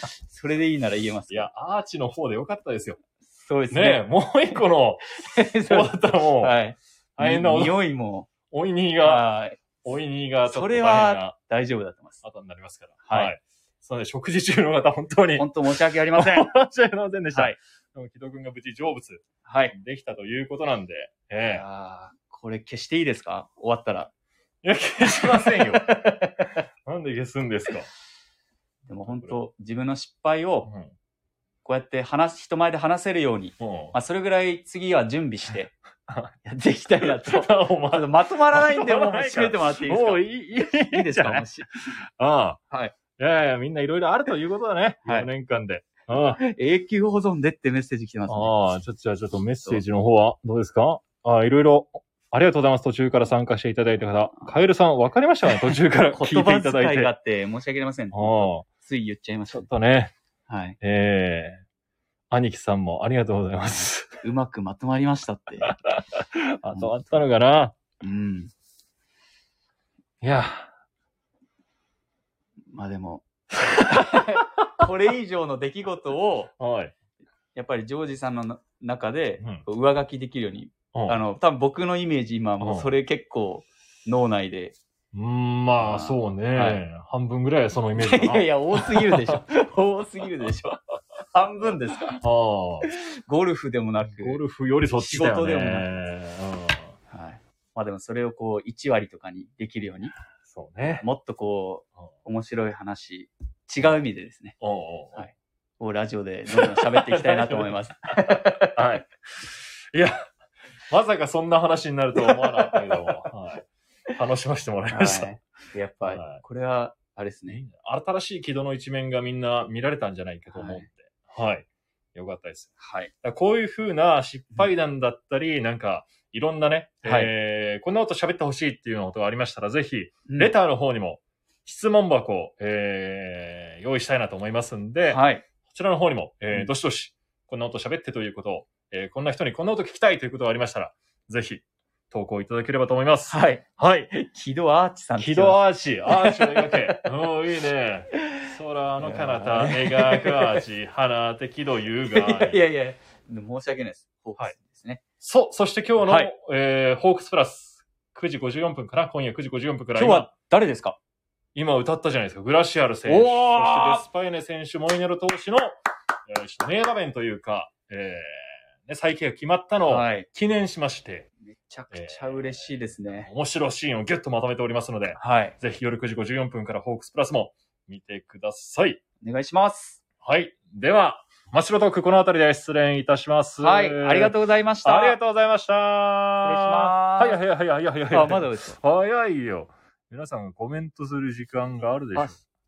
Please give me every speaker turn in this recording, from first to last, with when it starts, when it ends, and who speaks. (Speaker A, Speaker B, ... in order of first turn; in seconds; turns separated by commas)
Speaker A: 0.2-1.5, Speaker B: 1.3-3.0, Speaker A: 3.2-4.0, Speaker B: 3.7-6.6, Speaker A: 5.2-8.3, Speaker B: 7.2-7.8, Speaker B: 8.5-9.3, Speaker A: 9.0-9.6, Speaker B: 9.8-11.3, Speaker A: 10.5-12.2, Speaker B: 12.2-15.5, Speaker A: 13.1-13.3, Speaker A: 15.4-16.5, Speaker B: 16.1-21.6, Speaker A: 19.4-19.7, Speaker A: 21.5-24.1, Speaker B: 24.6-26.2, Speaker A: 25.1-26.5, Speaker B: 26.8-27.9, Speaker A: 28.9-30.7, Speaker B: 29.1-29.4, Speaker B: 30.7-30.9, Speaker A: 31.6-35.7, Speaker B: 33.6-33.9, Speaker B: 36.1-36.3, Speaker A: 36.4-41.7, Speaker B: 37.1-42.6, Speaker B: 43.2-46.4, Speaker A: 46.4-48.5, Speaker B: 48.3-57.1, Speaker A: 55.7-59.6, Speaker B: 58.1-58.6, Speaker B: 59.5-60.1, Speaker A: 60.5-60.8, Speaker B: 60.8-61.6, Speaker B: 62.3-64.2, Speaker A: 63.8-65.7, Speaker B: 65.6-67.7, Speaker A: 68.0-68.5, Speaker B: 70.2-70.7, Speaker A: 72.7-76.5, Speaker B: 76.6-76.9, Speaker A: 77.5-84.8, Speaker B: 80.9-81.2, Speaker B: 82.6-82.9, Speaker B: 85.1-89.4, Speaker A: 85.8-86.8, Speaker A: 88.0-92.2, Speaker B: 92.1-92.9, Speaker A: 92.8-94.4, Speaker B: 94.0-96.9, Speaker A: 95.0-96.0, Speaker A: 97.1-100.1, Speaker B: 100.5-101.0, Speaker A: 101.0-104.6, Speaker B: 104.6-105.3, Speaker A: 105.2-108.8, Speaker B: 106.5-110.3, Speaker B: 110.9-115.3, Speaker A: 112.2-113.0, Speaker A: 114.9-117.6, Speaker B: 116.0-116.4, Speaker B: 117.5-144.1, Speaker A: 120.5-120.8, Speaker A: 122.8-123.1, Speaker A: 127.0-127.3, Speaker A: 130.3-130.5, Speaker A: 135.1-135.4, Speaker A: 143.3-147.0, Speaker B: 145.2-152.6, Speaker A: 149.0-150.6, Speaker A: 152.1-155.0, Speaker B: 155.2-160.3, Speaker A: 156.0-156.3, Speaker A: 159.9-161.0, Speaker B: 161.5-171.3, Speaker A: 163.1-164.0, Speaker A: 169.9-170.3, Speaker A: 171.4-173.3, Speaker B: 171.9-179.0, Speaker A: 175.2-175.6, Speaker A: 179.2-180.0, Speaker B: 180.2-192.4, Speaker A: 183.6-185.2, Speaker A: 186.4-187.4, Speaker A: 188.1-188.8